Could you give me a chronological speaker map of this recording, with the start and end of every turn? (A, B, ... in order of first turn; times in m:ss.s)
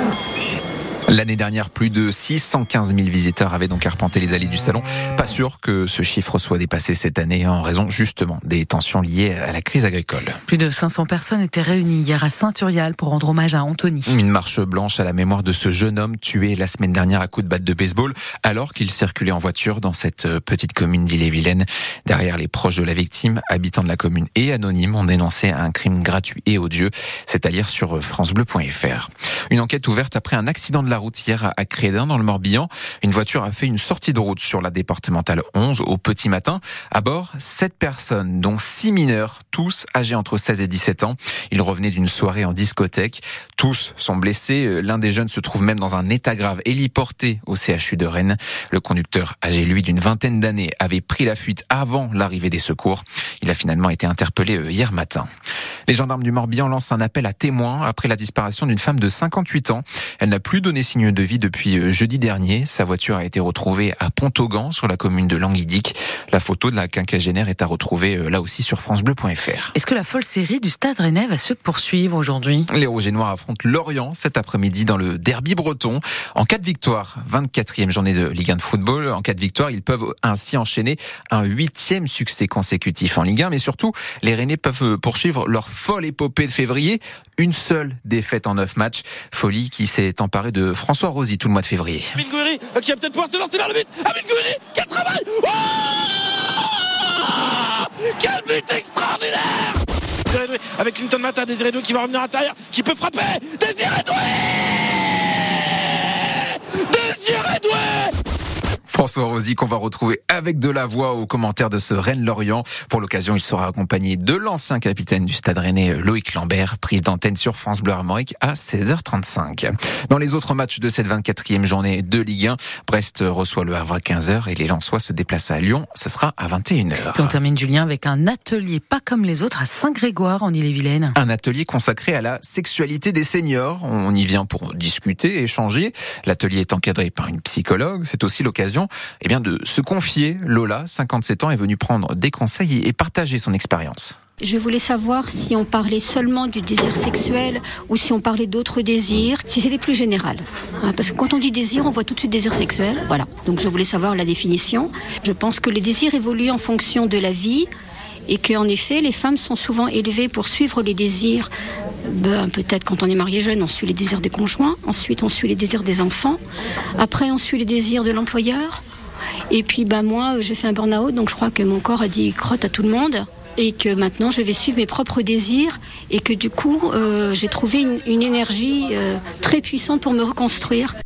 0:01.1-0:10.4 A
0:10.5-0:14.1 B
0:14.0-0:55.3 A
0:55.9-1:09.7 A
1:09.7-1:12.7 B
1:12.7-1:32.1 A
1:32.2-1:48.1 C
1:48.9-2:07.4 A
2:07.1-2:11.2 B
2:11.1-2:24.1 A
2:24.4-2:37.7 D
2:38.3-2:41.5 D
2:42.0-2:46.4 D
2:47.0-2:48.8 D
2:49.5-3:00.9 D